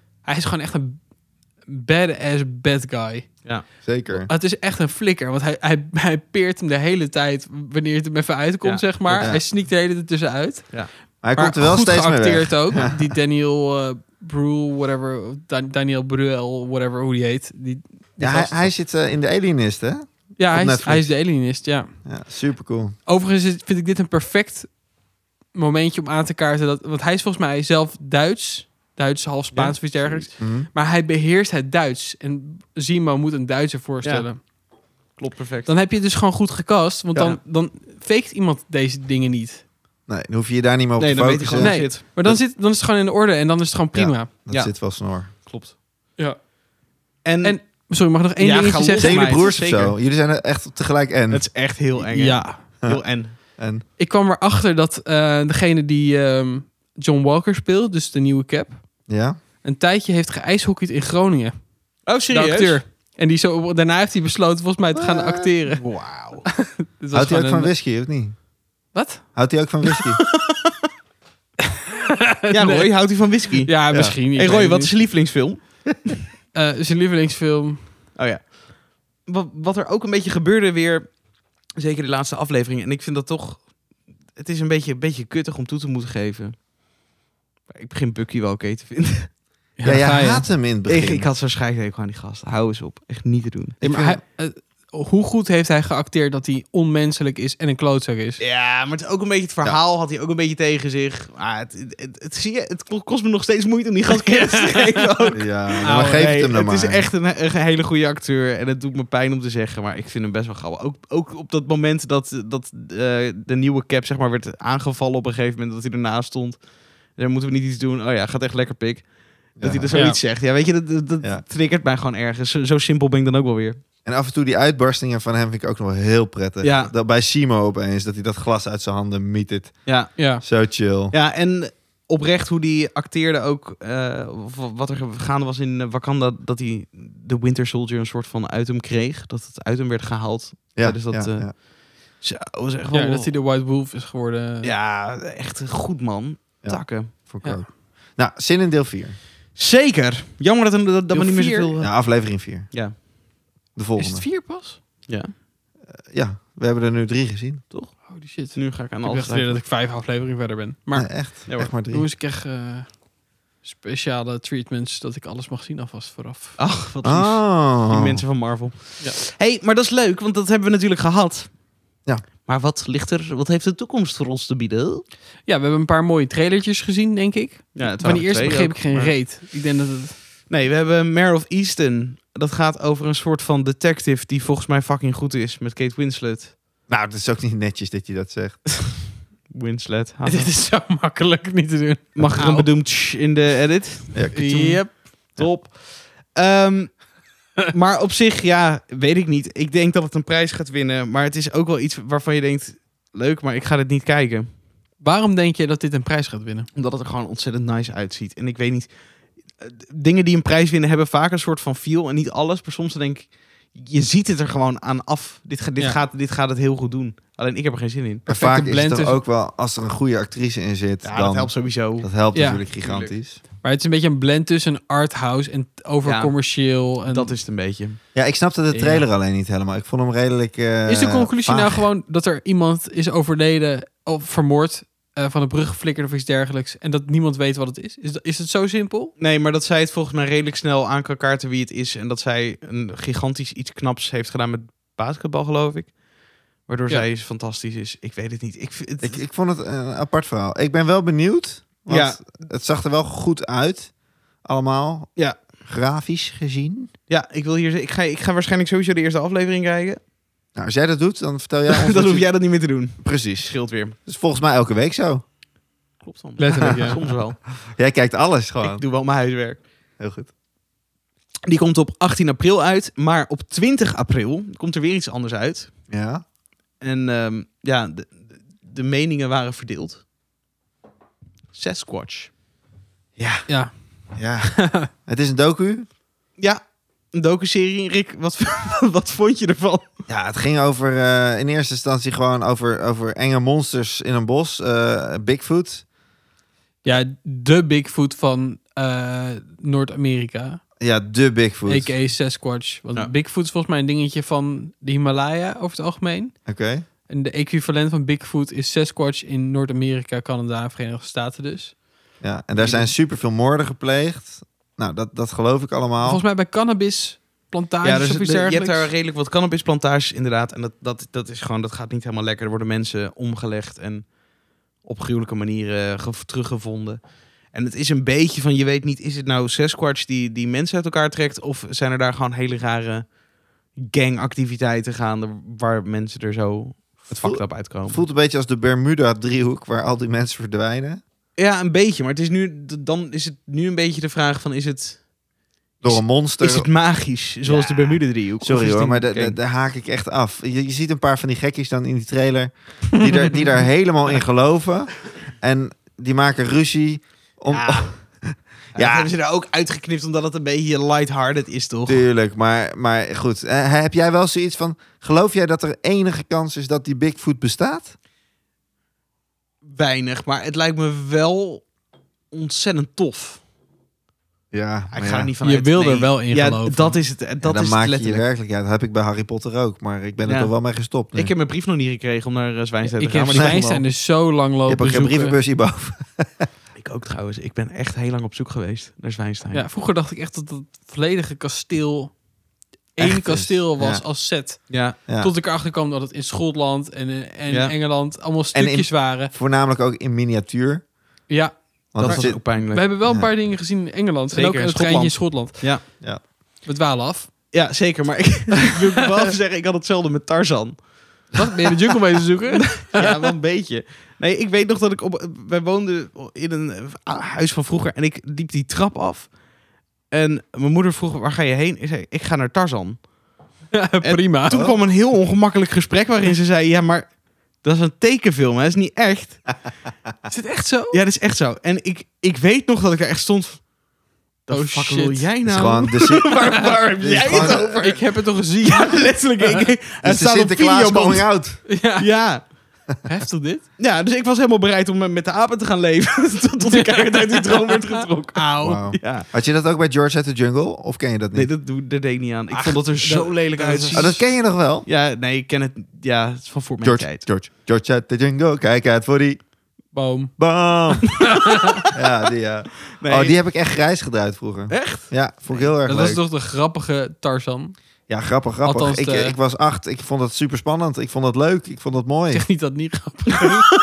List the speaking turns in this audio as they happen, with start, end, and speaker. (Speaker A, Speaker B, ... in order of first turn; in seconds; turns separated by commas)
Speaker A: 0.2-1.0, Speaker A: 1.7-3.4, Speaker B: 3.8-4.3, Speaker A: 4.2-18.7, Speaker C: 8.6-9.3, Speaker B: 9.2-9.4, Speaker B: 11.2-13.1, Speaker B: 18.2-22.9, Speaker A: 20.4-21.9, Speaker A: 23.1-24.8, Speaker A: 25.5-34.4, Speaker C: 29.5-30.3, Speaker B: 30.4-30.7, Speaker C: 34.0-34.3, Speaker C: 35.1-35.7, Speaker A: 35.6-39.6, Speaker B: 40.1-42.4, Speaker C: 41.0-42.0, Speaker A: 41.6-44.3, Speaker B: 43.9-45.3, Speaker C: 44.5-44.7, Speaker C: 45.3-45.7, Speaker C: 47.2-49.9, Speaker A: 47.4-49.5, Speaker B: 49.0-51.5, Speaker C: 51.3-53.3, Speaker A: 52.1-52.6, Speaker B: 52.8-53.8, Speaker A: 54.0-59.0, Speaker B: 59.1-59.4, Speaker A: 59.6-65.8, Speaker C: 62.0-62.8, Speaker B: 64.9-65.5, Speaker C: 65.7-66.4, Speaker A: 66.5-67.7, Speaker B: 67.1-68.4, Speaker A: 68.9-69.3, Speaker B: 69.3-70.2, Speaker A: 72.2-75.0, Speaker C: 72.5-75.9, Speaker B: 73.9-74.2, Speaker A: 76.5-77.9, Speaker C: 78.2-81.2, Speaker C: 81.8-83.8, Speaker C: 84.3-86.6, Speaker C: 87.7-89.3, Speaker A: 89.8-90.4, Speaker B: 89.8-91.3, Speaker C: 90.9-93.8, Speaker B: 93.8-94.2, Speaker A: 93.8-98.4, Speaker C: 98.4-123.8, Speaker A: 104.1-106.3, Speaker B: 105.3-107.1, Speaker B: 119.6-120.1, Speaker A: 119.9-120.2, Speaker B: 124.0-131.1, Speaker C: 126.6-126.9, Speaker C: 129.8-130.3, Speaker A: 130.2-130.4, Speaker C: 131.1-143.3, Speaker B: 140.7-141.5, Speaker A: 142.9-144.7, Speaker C: 144.6-147.1, Speaker B: 146.6-149.2, Speaker C: 149.5-152.2, Speaker A: 151.1-151.7, Speaker B: 151.8-152.7, Speaker C: 152.7-152.9, Speaker B: 153.8-154.2, Speaker A: 154.0-154.8, Speaker C: 155.1-155.3, Speaker B: 155.9-157.6, Speaker C: 157.7-159.6, Speaker A: 158.1-163.0, Speaker B: 160.9-162.1, Speaker A: 163.6-166.6, Speaker C: 166.6-171.6, Speaker B: 167.0-168.2, Speaker C: 172.4-175.0, Speaker A: 175.4-180.2, Speaker C: 177.8-179.2, Speaker C: 180.5-186.5, Speaker B: 186.9-188.6, Speaker C: 189.5-190.5, Speaker A: 190.2-192.7, Speaker C: 192.2-197.0, Speaker A: 194.3-195.3, Speaker C: 197.7-204.5, Speaker A: 205.0-206.7, Speaker C: 206.7-208.9, Speaker C: 209.6-218.2, Speaker A: 218.3-219.2, Speaker B: 218.3-223.4, Speaker C: 221.0-222.1, Speaker A: 222.3-222.6, Speaker C: 222.8-223.1, Speaker A: 223.6-227.3, Speaker C: 226.0-226.3, Speaker C: 227.0-228.0, Speaker B: 228.1-231.8, Speaker A: 228.7-229.0, Speaker A: 230.9-239.1, Speaker C: 239.2-246.0, Speaker C: 246.6-249.2, Speaker B: 249.0-256.9, Speaker C: 251.9-252.2, Speaker C: 257.1-260.0, Speaker B: 260.6-265.2, Speaker C: 261.7-263.9, Speaker C: 266.0-267.4, Speaker A: 266.4-267.0, Speaker B: 267.6-268.8, Speaker C: 268.6-269.6, Speaker B: 270.0-270.3, Speaker C: 271.5-275.7, Speaker B: 275.9-276.2, Speaker C: 276.8-280.0, Speaker C: 281.5-282.3, Speaker B: 283.2-283.5, Speaker A: 283.5-284.9, Speaker B: 284.1-285.9, Speaker C: 287.1-289.9, Speaker B: 290.1-295.8, Speaker A: 296.8-300.6, Speaker B: 300.8-301.9, Speaker A: 301.7-306.3, Speaker B: 306.4-306.8, Speaker A: 307.1-311.8, Speaker B: 312.2-316.2, Speaker A: 316.0-318.9, Speaker C: 317.8-324.2, Speaker C: 324.8-333.1, Speaker C: 333.7-338.0, Speaker B: 337.1-341.0, Speaker C: 341.4-345.1, Speaker B: 345.8-346.7, Speaker C: 345.8-349.4, Speaker B: 347.4-359.1, Speaker C: 357.5-357.9, Speaker C: 358.7-362.0, Speaker B: 361.9-367.9, Speaker C: 369.6-371.6, Speaker C: 372.3-373.4, Speaker B: 374.5-375.3, Speaker C: 374.9-378.2, Speaker A: 375.4-377.0, Speaker B: 377.4-381.3, Speaker C: 380.2-380.5, Speaker C: 381.1-383.6, Speaker A: 383.0-385.4, Speaker B: 383.3-383.9, Speaker B: 384.6-386.5, Speaker C: 386.8-389.7, Speaker A: 389.5-392.2, Speaker A: 392.9-399.3, Speaker B: 393.0-394.0, Speaker C: 394.7-394.9, Speaker B: 395.1-395.3, Speaker C: 397.5-397.7, Speaker B: 398.5-400.8, Speaker A: 401.3-406.0, Speaker B: 401.9-403.3, Speaker C: 402.0-402.9, Speaker C: 404.3-405.8, Speaker A: 406.6-407.4, Speaker C: 407.5-410.9, Speaker A: 411.4-413.2, Speaker C: 412.8-419.3, Speaker C: 420.1-423.1, Speaker A: 423.7-424.7, Speaker C: 424.0-429.5, Speaker B: 424.5-424.8, Speaker A: 430.3-431.0, Speaker C: 430.9-433.7, Speaker C: 434.4-442.4, Speaker A: 434.5-435.3, Speaker B: 435.4-437.8, Speaker A: 436.6-439.6, Speaker B: 440.0-441.6, Speaker A: 441.7-443.6, Speaker C: 443.8-449.3, Speaker A: 446.7-449.0, Speaker B: 448.6-451.5, Speaker C: 451.3-454.3, Speaker A: 452.5-454.1, Speaker B: 453.9-454.9, Speaker C: 454.8-457.2, Speaker B: 456.8-459.4, Speaker A: 459.9-460.3, Speaker B: 460.4-461.3, Speaker A: 461.2-461.8, Speaker B: 461.9-466.2, Speaker C: 462.9-463.3, Speaker C: 464.7-465.7, Speaker A: 465.8-467.8, Speaker B: 468.1-472.5, Speaker A: 468.6-469.3, Speaker A: 472.3-473.7